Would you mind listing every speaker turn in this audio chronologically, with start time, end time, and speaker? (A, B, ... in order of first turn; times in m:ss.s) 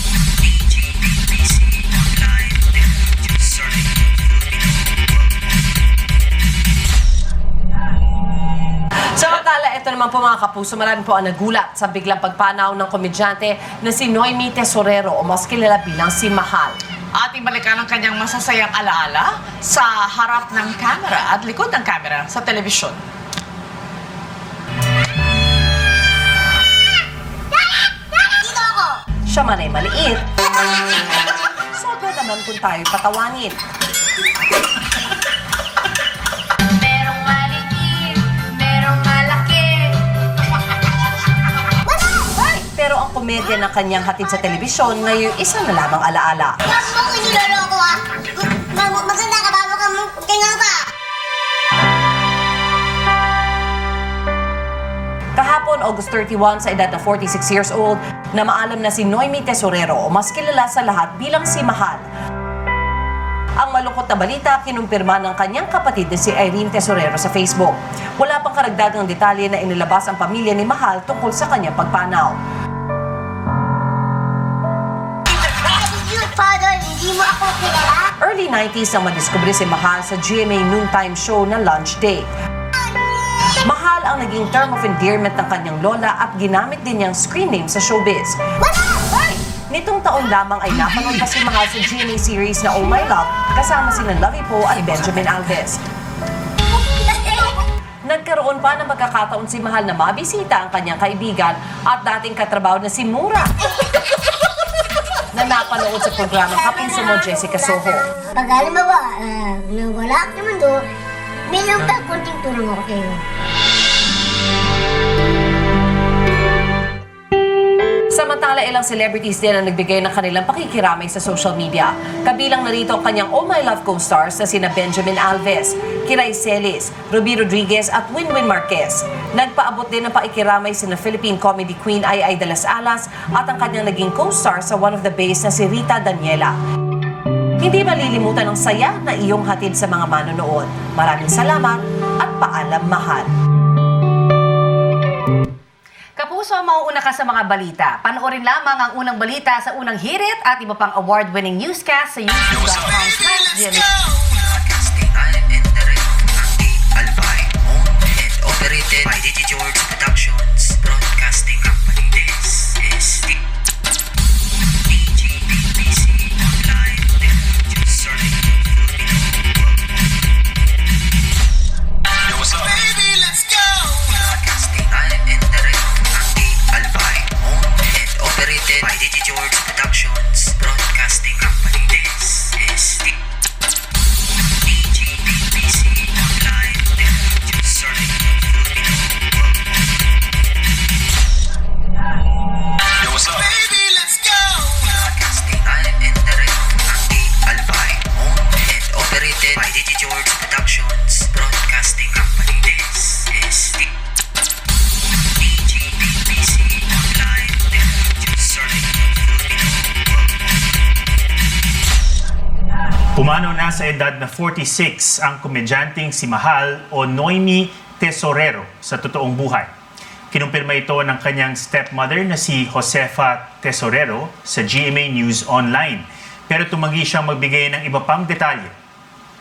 0:09.1-0:16.8 A
0:17.1-0:23.0 B
0:28.4-0:28.8 C
0:29.3-0:30.2 A
0:31.7-0:33.6 A
0:37.0-0:38.0 C
0:38.6-0:39.8 C
0:41.9-0:42.3 C
0:42.7-0:46.6 A
0:46.7-0:50.9 C
0:55.4-1:02.0 A
1:03.6-1:12.4 A
1:15.5-1:18.1 C
1:18.2-1:22.3 A
1:23.6-1:28.4 A
1:28.6-1:29.0 C
1:29.7-1:35.8 A
1:38.0-1:43.5 A
1:45.3-1:48.0 A
1:48.3-1:50.8 C
1:51.5-1:53.2 C
1:58.1-2:16.5 A
2:17.6-2:23.3 A
2:26.2-2:33.8 D
3:33.1-3:39.7 E
3:40.3-3:48.7 E